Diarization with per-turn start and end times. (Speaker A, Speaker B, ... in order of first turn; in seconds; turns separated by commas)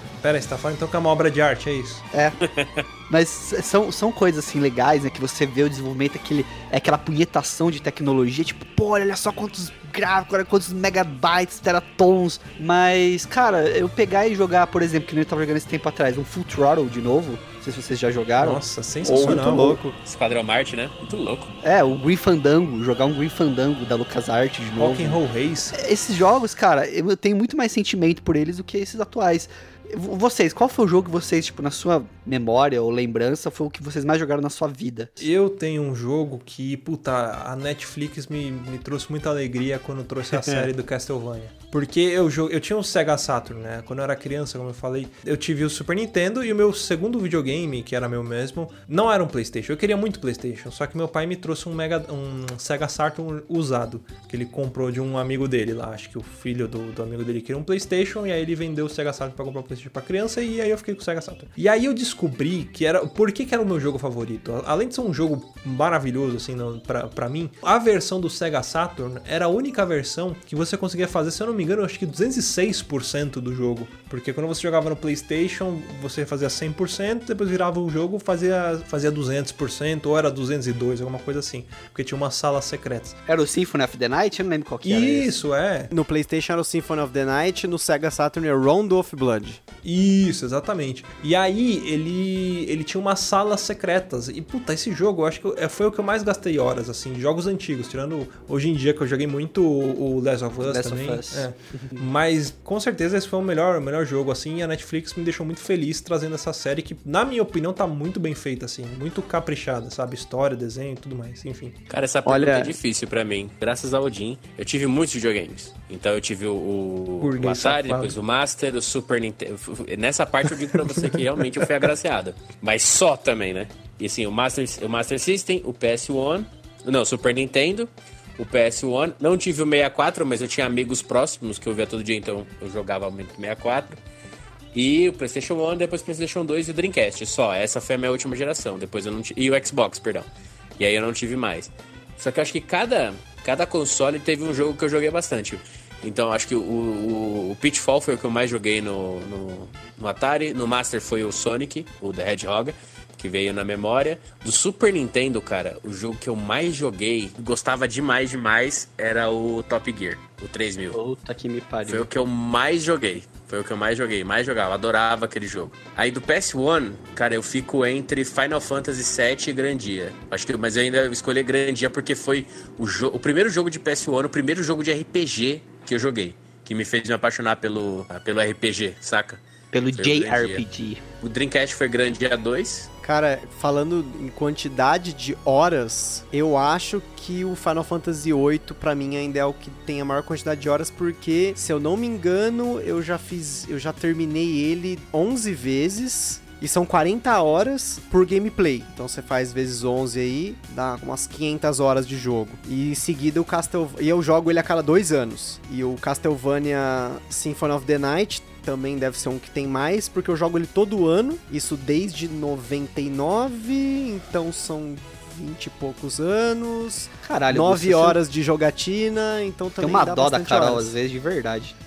Speaker A: 0.2-2.0, Speaker B: 2.4-2.8, Speaker C: 3.1-19.8, Speaker A: 18.4-19.9, Speaker D: 19.2-19.7, Speaker B: 20.0-21.5, Speaker C: 21.6-25.2, Speaker A: 24.8-25.8, Speaker C: 25.7-35.2, Speaker A: 35.2-83.2, Speaker C: 83.3-85.3, Speaker A: 84.8-85.9, Speaker D: 85.9-89.6, Speaker A: 89.8-111.8, Speaker C: 100.6-102.0, Speaker B: 111.9-134.0, Speaker D: 112.2-112.7, Speaker A: 117.2-118.2, Speaker B: 134.7-161.0, Speaker C: 160.9-162.1, Speaker B: 161.9-180.6, Speaker C: 179.7-181.0, Speaker B: 181.2-182.9, Speaker D: 183.0-220.9, Speaker C: 217.2-218.2, Speaker C: 219.8-221.7